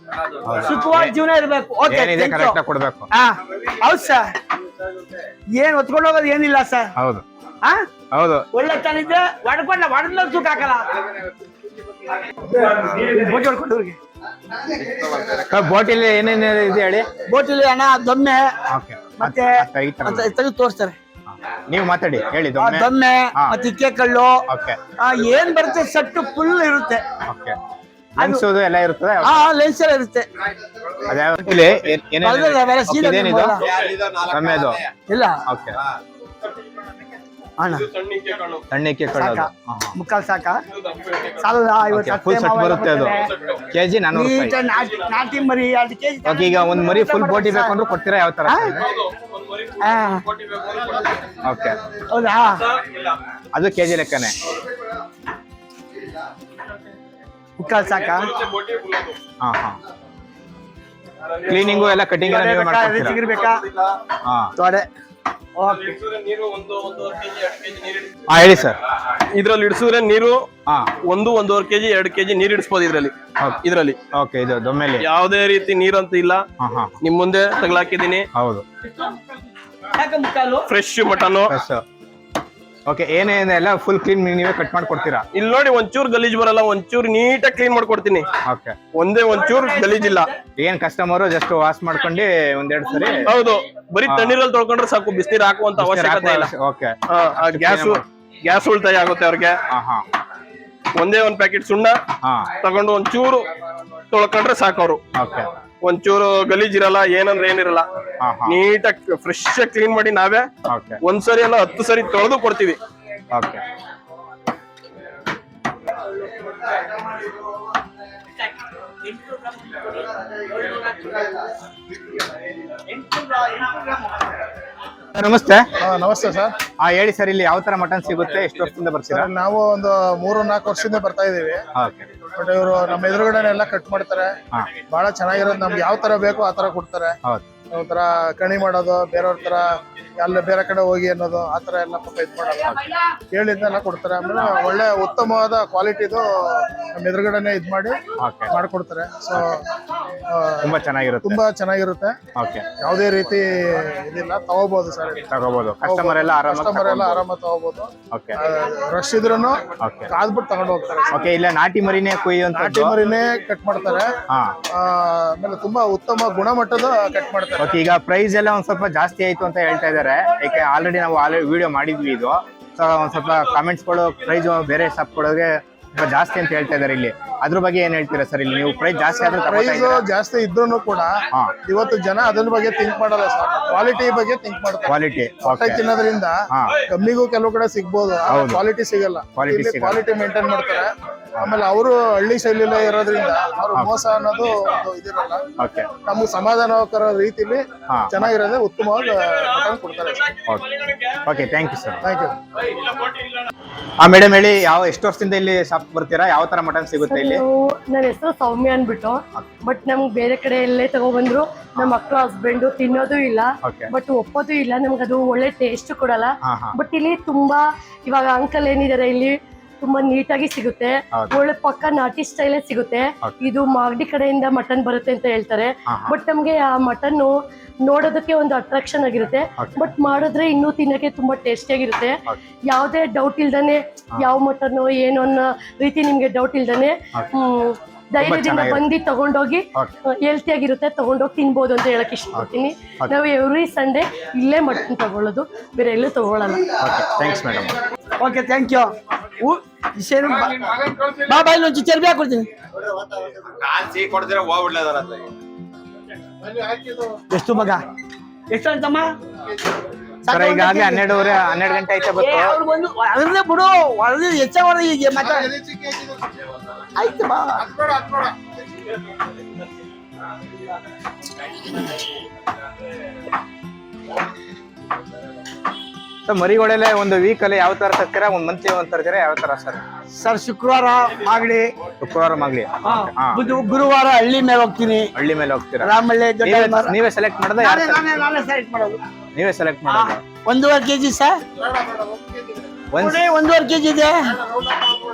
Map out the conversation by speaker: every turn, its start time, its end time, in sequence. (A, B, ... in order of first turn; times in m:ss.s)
0:00.4-0:01.1 A
0:00.5-0:02.6 B
0:01.9-0:03.1 A
0:03.1-0:04.2 B
0:05.6-0:06.9 B
0:07.0-0:07.2 A
0:08.1-0:08.5 A
0:08.5-0:11.1 B
0:12.4-0:14.0 B
0:14.9-0:17.1 A
0:17.2-0:18.5 B
0:18.7-0:20.3 A
0:19.2-0:19.5 B
0:20.0-0:20.9 B
0:21.3-0:23.6 A
0:22.6-0:24.4 B
0:24.5-0:24.8 A
0:25.0-0:27.0 B
0:27.2-0:27.6 A
0:28.2-0:28.4 B
0:28.2-0:29.5 A
0:29.2-0:30.3 B
0:31.0-0:33.6 A
0:32.2-0:33.7 B
0:34.2-0:34.8 A
0:35.1-0:35.4 B
0:35.5-0:35.8 A
0:37.6-0:37.9 B
0:37.7-0:38.6 C
0:38.7-0:39.9 A
0:39.1-0:40.6 B
0:40.7-0:41.4 C
0:41.4-0:43.3 B
0:41.9-0:43.1 A
0:43.3-0:43.6 C
0:43.7-0:44.6 A
0:44.1-0:47.8 B
0:46.2-0:48.7 A
0:48.4-0:48.8 B
0:48.8-0:51.2 C
0:49.8-0:50.3 B
0:51.4-0:51.8 A
0:52.1-0:52.7 B
0:53.5-0:54.3 A
0:57.6-0:58.4 B
0:57.9-0:59.2 C
0:59.4-0:59.8 A
1:01.4-1:02.0 C
1:01.5-1:03.2 A
1:02.2-1:03.6 B
1:04.2-1:04.5 A
1:04.6-1:04.9 B
1:05.6-1:06.0 B
1:05.9-1:08.1 C
1:08.3-1:08.8 A
1:09.3-1:10.5 C
1:11.0-1:14.0 C
1:14.1-1:15.0 A
1:15.0-1:16.4 C
1:16.6-1:16.9 A
1:17.0-1:18.3 C
1:18.4-1:18.6 A
1:19.9-1:20.7 B
1:20.7-1:21.5 C
1:21.5-1:21.8 A
1:22.9-1:25.2 A
1:25.3-1:28.3 C
1:28.5-1:28.8 A
1:28.9-1:30.3 C
1:29.4-1:30.3 B
1:30.6-1:33.3 A
1:33.2-1:36.5 C
1:34.0-1:34.4 A
1:35.8-1:38.0 A
1:37.1-1:39.6 C
1:39.7-1:40.0 A
1:41.0-1:42.0 C
1:42.6-1:43.5 C
1:44.1-1:45.0 C
1:45.2-1:45.5 A
1:45.8-1:47.8 C
1:48.2-1:48.6 A
1:48.5-1:50.5 C
1:50.7-1:51.0 A
1:51.0-1:52.8 C
1:53.3-1:53.6 A
2:02.9-2:04.3 B
2:05.1-2:05.7 A
2:05.8-2:06.6 D
2:06.8-2:09.3 A
2:09.1-2:11.6 D
2:11.8-2:12.1 A
2:12.4-2:14.4 D
2:14.9-2:17.2 D
2:17.7-2:22.7 D
2:23.3-2:28.0 D
2:28.2-2:28.5 A
2:28.5-2:29.6 D
2:30.3-2:30.7 D
2:30.6-2:31.4 A
2:31.2-2:32.1 D
2:32.3-2:32.7 A
2:32.8-2:35.2 D
2:35.3-2:37.2 A
2:35.8-2:41.1 D
2:38.1-2:38.4 A
2:39.8-2:40.1 A
2:41.1-2:42.9 A
2:42.5-2:44.1 D
2:44.3-2:44.6 A
2:44.7-2:47.7 D
2:47.6-3:00.0 A
2:59.2-3:06.4 D
3:04.9-3:05.9 A
3:06.5-3:06.8 A
3:06.9-3:15.4 D
3:08.3-3:08.6 A
3:09.4-3:10.0 A
3:15.6-3:15.9 A
3:16.0-3:20.3 D
3:17.9-3:18.2 A
3:20.3-3:21.2 C
3:21.2-3:22.0 A
3:22.0-3:22.4 D
3:22.7-3:23.1 C
3:24.0-3:27.4 A
3:27.0-3:47.3 E
3:36.4-3:36.7 A
3:45.9-3:46.1 A
3:47.8-3:52.2 E
3:49.6-3:49.9 A
3:52.7-3:59.6 E
3:58.2-3:58.8 A
4:00.2-4:06.7 E
4:06.8-4:07.8 A
4:08.2-4:12.5 B
4:16.7-4:17.0 D
4:17.3-4:17.8 B
4:18.5-4:19.1 B
4:20.2-4:21.3 B
4:20.3-4:22.6 A
4:22.2-4:25.5 B
4:27.0-4:27.7 B
4:36.2-4:39.8 A
4:40.2-4:41.7 B
4:42.0-4:43.4 A
4:42.8-4:45.1 B
4:45.2-4:45.9 A
4:45.8-4:47.0 B
4:46.4-4:48.2 A
4:47.6-4:49.0 B
4:49.3-4:50.2 A
4:49.9-4:51.4 B
4:51.8-4:52.3 D
4:52.9-4:53.2 A
4:53.0-4:54.1 B